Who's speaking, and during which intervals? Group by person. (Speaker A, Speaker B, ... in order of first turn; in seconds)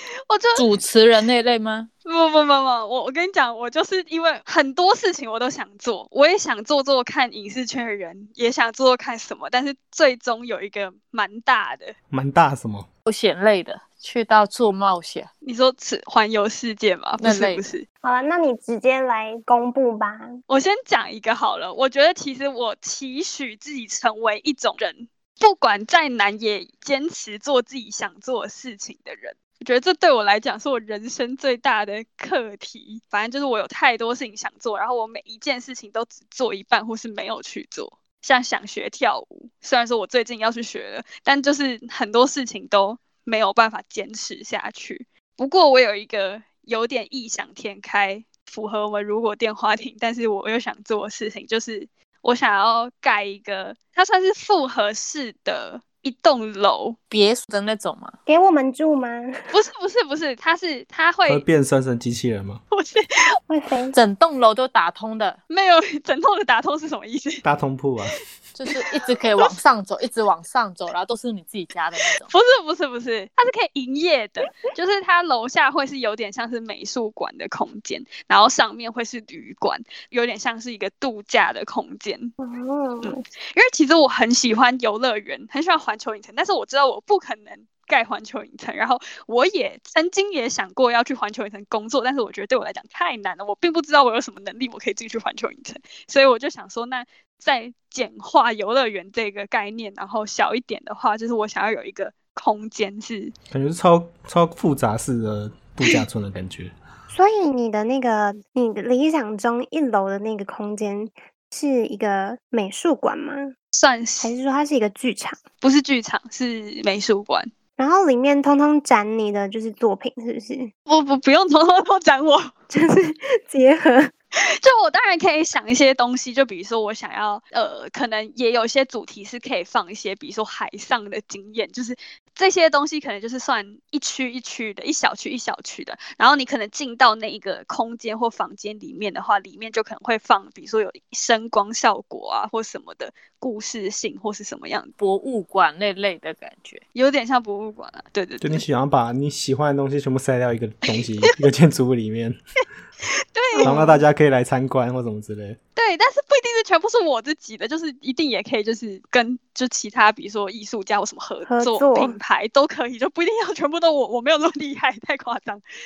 Speaker A: 0.3-0.7, 2.0-11.9, 15.4-17.9, 20.5-57.0, 59.5-61.4, 62.7-63.4, 65.5-67.4, 72.2-82.3, 83.0-103.3, 113.7-114.3, 115.6-117.5, 120.9-122.5, 124.6-144.9, 146.9-148.7, 153.3-153.8, 155.8-165.6
Speaker B: 0.6-1.9, 13.1-15.3, 17.2-17.6, 57.1-58.2, 63.9-65.4, 68.6-72.3, 145.0-146.8
Speaker C: 12.1-12.9, 61.3-62.6, 67.4-68.2, 103.5-106.7, 148.4-152.4, 153.6-155.6
Speaker D: 18.0-20.4, 58.3-59.3, 63.5-64.0, 82.4-83.2, 107.1-113.5, 114.2-115.4, 117.8-120.7, 122.7-124.1, 153.6-154.0, 161.5-162.2